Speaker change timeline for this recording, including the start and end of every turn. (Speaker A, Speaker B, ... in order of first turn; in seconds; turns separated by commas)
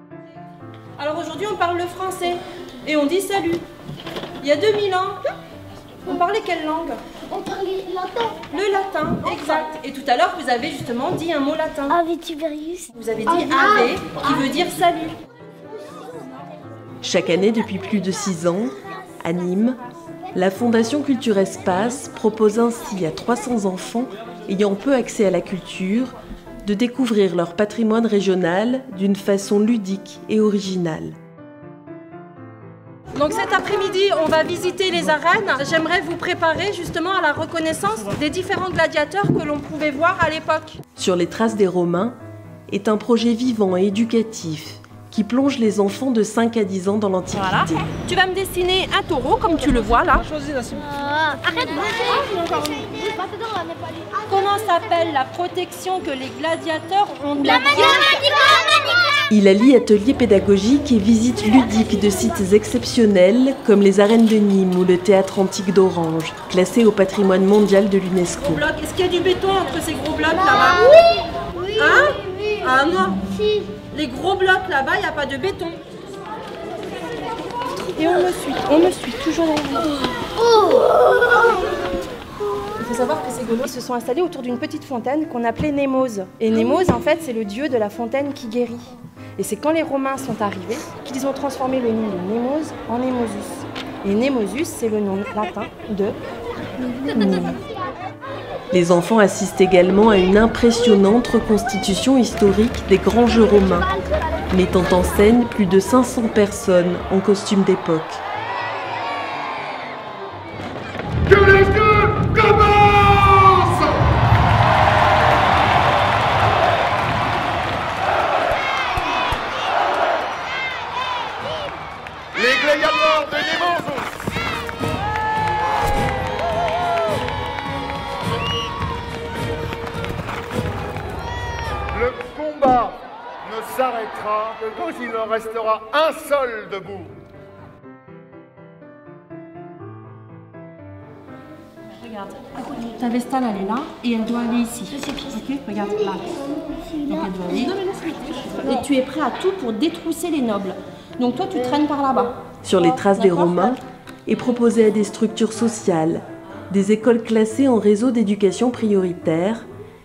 Speaker A: 1.0-3.6, Speaker A: 4.4-5.3, Speaker A: 6.0-7.0, Speaker B: 7.3-8.3, Speaker A: 8.4-12.1, Speaker B: 12.1-12.8, Speaker A: 12.8-15.2, Speaker C: 17.0-19.8, Speaker C: 20.3-31.2, Speaker A: 33.1-40.8, Speaker C: 41.0-42.2, Speaker C: 42.7-47.9, Speaker A: 47.3-50.5, Speaker B: 50.6-52.0, Speaker A: 51.3-53.1, Speaker B: 52.9-54.2, Speaker A: 54.2-58.8, Speaker C: 59.3-68.6, Speaker A: 68.4-75.8, Speaker A: 77.7-80.0, Speaker A: 82.8-96.2, Speaker A: 96.9-97.6, Speaker C: 98.7-104.0, Speaker C: 104.5-108.2, Speaker D: 111.3-114.0, Speaker D: 122.3-124.1, Speaker D: 131.9-137.1, Speaker A: 142.0-153.8, Speaker B: 146.7-147.0, Speaker C: 152.6-159.7